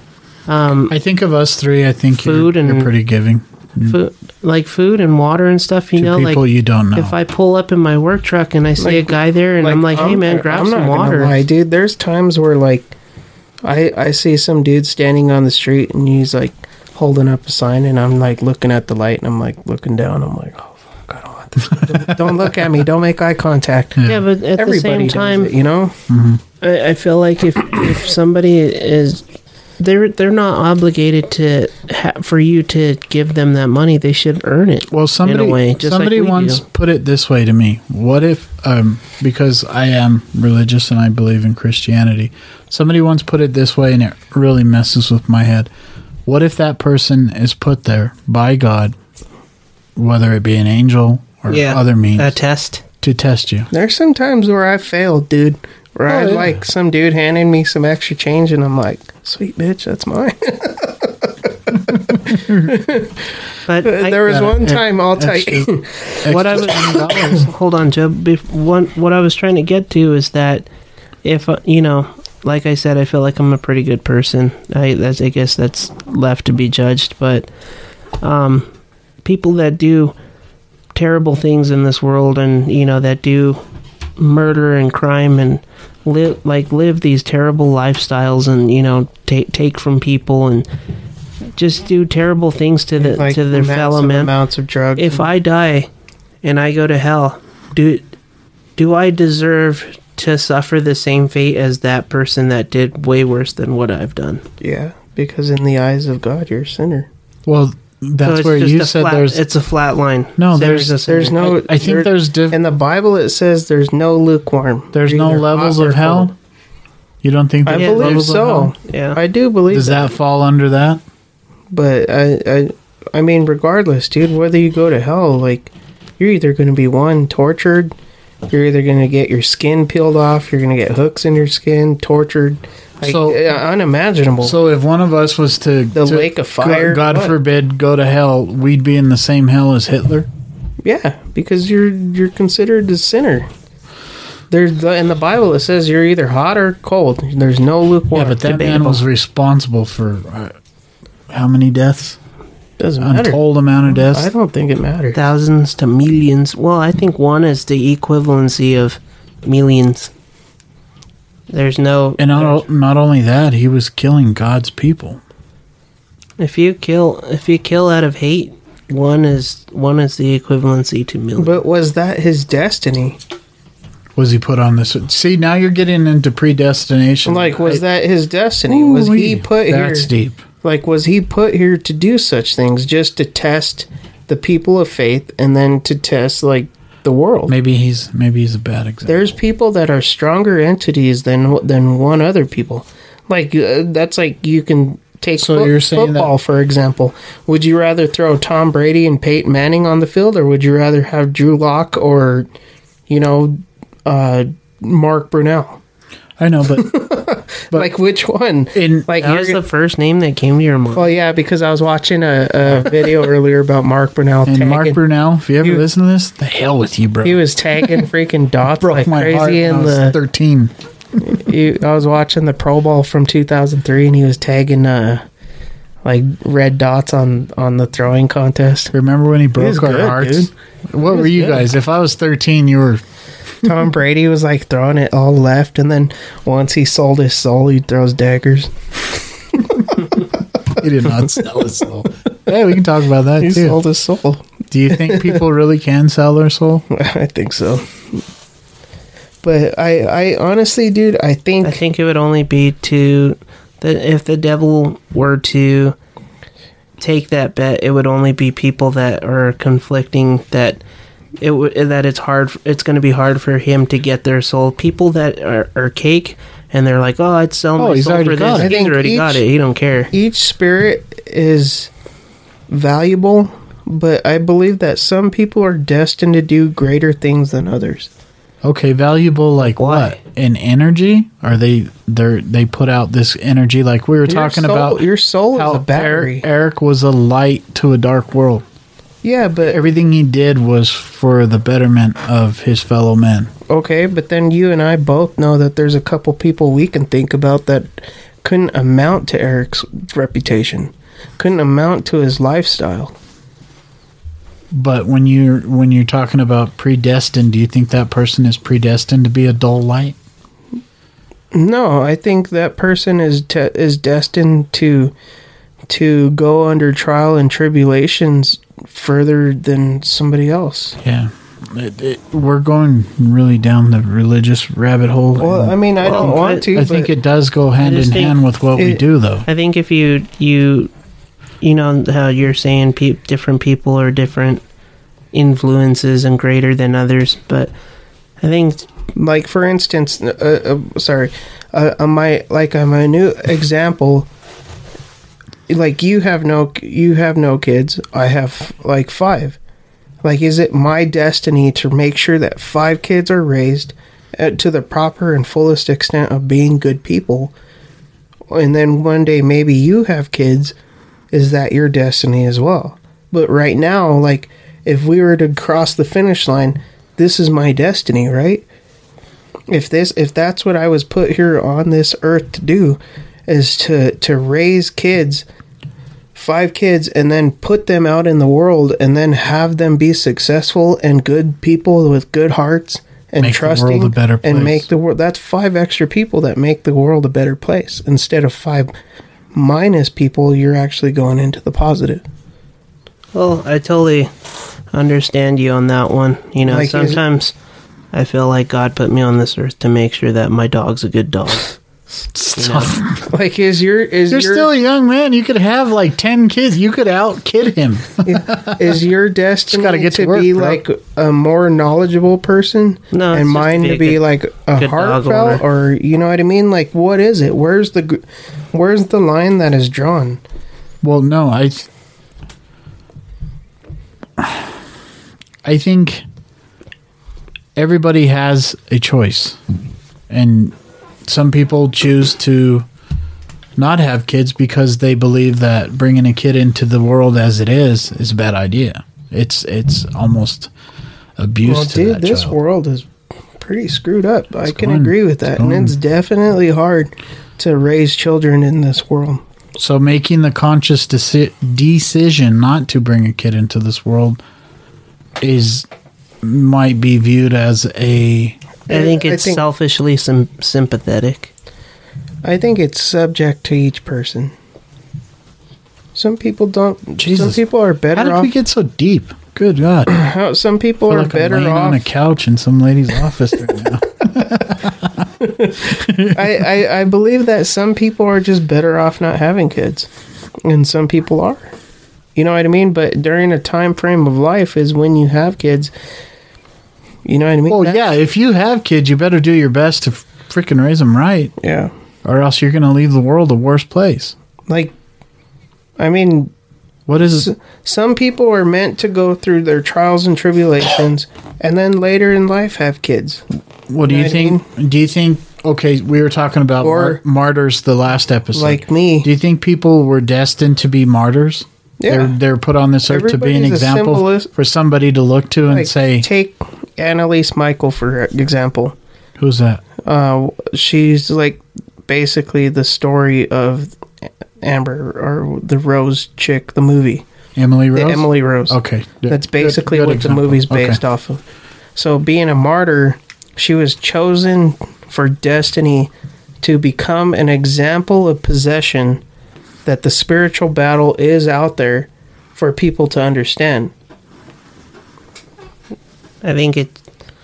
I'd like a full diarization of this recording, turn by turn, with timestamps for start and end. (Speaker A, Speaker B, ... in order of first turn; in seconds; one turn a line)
Speaker A: 0.5-0.9
Speaker B: 0.9-4.0
Speaker A: 2.2-2.9
Speaker A: 3.8-6.4
Speaker B: 6.0-7.2
Speaker A: 7.0-11.3
Speaker C: 8.8-12.9
Speaker C: 13.6-25.9
Speaker B: 21.7-22.1
Speaker A: 24.1-25.5
Speaker B: 26.1-26.4
Speaker A: 26.6-29.2
Speaker A: 29.8-36.6
Speaker B: 34.9-45.7
Speaker B: 46.3-49.0
Speaker B: 50.0-52.4
Speaker A: 51.5-52.8
Speaker B: 53.0-53.7
Speaker C: 53.7-63.2
Speaker B: 56.1-56.6
Speaker B: 61.9-62.7
Speaker A: 63.7-64.4
Speaker C: 63.8-66.8
Speaker B: 64.3-65.7
Speaker B: 66.2-67.5
Speaker A: 66.3-70.7
Speaker A: 71.2-77.5
Speaker A: 78.2-78.7
Speaker A: 79.2-80.1
Speaker A: 81.0-83.6
Speaker A: 84.2-90.7
Speaker A: 91.6-94.3
Speaker C: 93.0-95.3
Speaker A: 95.0-95.9
Speaker A: 96.4-98.1
Speaker A: 98.8-104.4
Speaker C: 104.6-107.1
Speaker B: 107.5-109.4
Speaker A: 108.2-111.6
Speaker B: 110.4-112.6
Speaker C: 111.1-116.3
Speaker B: 114.9-116.3
Speaker B: 117.2-118.7
Speaker C: 117.7-120.1
Speaker A: 117.7-118.3
Speaker A: 118.8-119.2
Speaker B: 119.7-121.0
Speaker C: 121.7-127.9
Speaker C: 128.5-134.6
Speaker B: 133.0-133.4
Speaker B: 134.4-140.3
Speaker C: 135.9-137.4
Speaker C: 140.8-143.5
Speaker C: 144.5-149.0
Speaker B: 148.1-150.6
Speaker B: 151.3-152.2
Speaker C: 152.8-155.2
Speaker B: 153.0-154.3
Speaker A: 155.1-160.1
Speaker A: 161.5-162.6
Speaker B: 162.2-165.2
Speaker A: 166.4-171.6
Speaker C: 171.4-173.2
Speaker B: 174.2-177.8
Speaker C: 177.3-180.1
Speaker B: 178.7-180.4
Speaker C: 180.6-187.5
Speaker B: 187.5-189.2
Speaker C: 189.1-202.5
Speaker B: 195.4-196.3
Speaker C: 203.1-205.8
Speaker B: 206.4-207.0
Speaker C: 206.8-209.6
Speaker B: 208.7-209.1
Speaker A: 209.2-211.1
Speaker C: 210.9-215.0
Speaker B: 214.5-218.1
Speaker C: 217.2-220.2
Speaker B: 218.8-220.7
Speaker C: 221.2-225.2
Speaker C: 226.0-228.9
Speaker B: 228.9-233.0
Speaker C: 229.6-230.5
Speaker C: 231.1-231.6
Speaker C: 233.6-240.3
Speaker B: 240.7-243.8
Speaker C: 241.1-241.4
Speaker C: 243.4-245.4
Speaker B: 244.7-246.8
Speaker C: 246.9-248.2
Speaker C: 249.4-251.8
Speaker A: 251.6-256.0
Speaker A: 257.0-260.8
Speaker A: 261.4-270.1
Speaker B: 267.8-268.7
Speaker C: 268.6-269.4
Speaker C: 270.1-271.9
Speaker C: 272.7-278.1
Speaker B: 278.6-285.0
Speaker A: 279.7-280.2
Speaker C: 284.3-286.5
Speaker B: 285.6-288.6
Speaker C: 289.2-289.8
Speaker B: 289.7-293.5
Speaker C: 293.7-303.1
Speaker B: 304.7-310.2
Speaker C: 311.5-315.1
Speaker C: 315.9-321.0
Speaker B: 321.0-329.5
Speaker C: 325.4-327.1
Speaker A: 326.0-326.7
Speaker A: 327.8-328.4
Speaker C: 328.8-329.0
Speaker A: 329.5-330.9
Speaker A: 331.6-334.6
Speaker A: 335.3-337.7
Speaker A: 338.4-338.9
Speaker C: 339.2-344.3
Speaker C: 345.7-349.6
Speaker C: 350.2-357.5
Speaker C: 358.5-360.8
Speaker C: 361.3-368.7
Speaker C: 369.7-375.4
Speaker C: 376.4-388.9
Speaker B: 383.4-384.9
Speaker C: 389.5-392.2
Speaker A: 393.3-394.3
Speaker A: 394.9-397.5
Speaker C: 396.6-397.2
Speaker A: 398.1-401.8
Speaker B: 402.3-403.2
Speaker A: 402.6-403.0
Speaker C: 403.2-404.7
Speaker B: 404.3-408.9
Speaker C: 408.2-420.4
Speaker B: 409.7-410.8
Speaker A: 413.1-414.2
Speaker A: 414.8-415.6
Speaker B: 421.0-421.9
Speaker B: 424.4-424.7
Speaker B: 425.6-426.2
Speaker B: 427.8-429.6
Speaker B: 430.3-430.7
Speaker B: 431.3-432.9
Speaker B: 433.8-440.7
Speaker B: 441.4-442.6
Speaker C: 441.6-443.1
Speaker C: 443.6-449.4
Speaker B: 444.7-446.0
Speaker B: 449.8-454.4
Speaker B: 455.4-455.9
Speaker B: 456.4-458.6
Speaker C: 458.9-459.6
Speaker A: 458.9-461.5
Speaker C: 462.4-464.5
Speaker C: 466.1-468.5
Speaker B: 467.2-467.6
Speaker B: 468.1-470.2
Speaker C: 470.1-472.1
Speaker B: 471.1-476.6
Speaker C: 475.4-480.1
Speaker C: 480.6-481.7
Speaker C: 482.4-485.9
Speaker C: 487.2-488.1
Speaker B: 487.7-491.5
Speaker C: 491.6-491.9
Speaker B: 492.2-494.4
Speaker C: 494.7-494.9
Speaker C: 496.0-496.5
Speaker B: 497.1-497.5
Speaker C: 497.4-503.4
Speaker B: 503.9-516.3
Speaker C: 504.0-504.6
Speaker C: 506.8-507.2
Speaker C: 508.6-509.3
Speaker C: 512.0-512.4
Speaker C: 513.1-514.5
Speaker C: 515.7-519.0
Speaker B: 519.4-519.8
Speaker C: 520.0-524.0
Speaker C: 524.6-527.2
Speaker B: 527.6-531.0
Speaker C: 527.9-531.4
Speaker C: 532.0-536.1
Speaker C: 536.6-539.2
Speaker C: 539.9-543.9
Speaker A: 546.4-547.0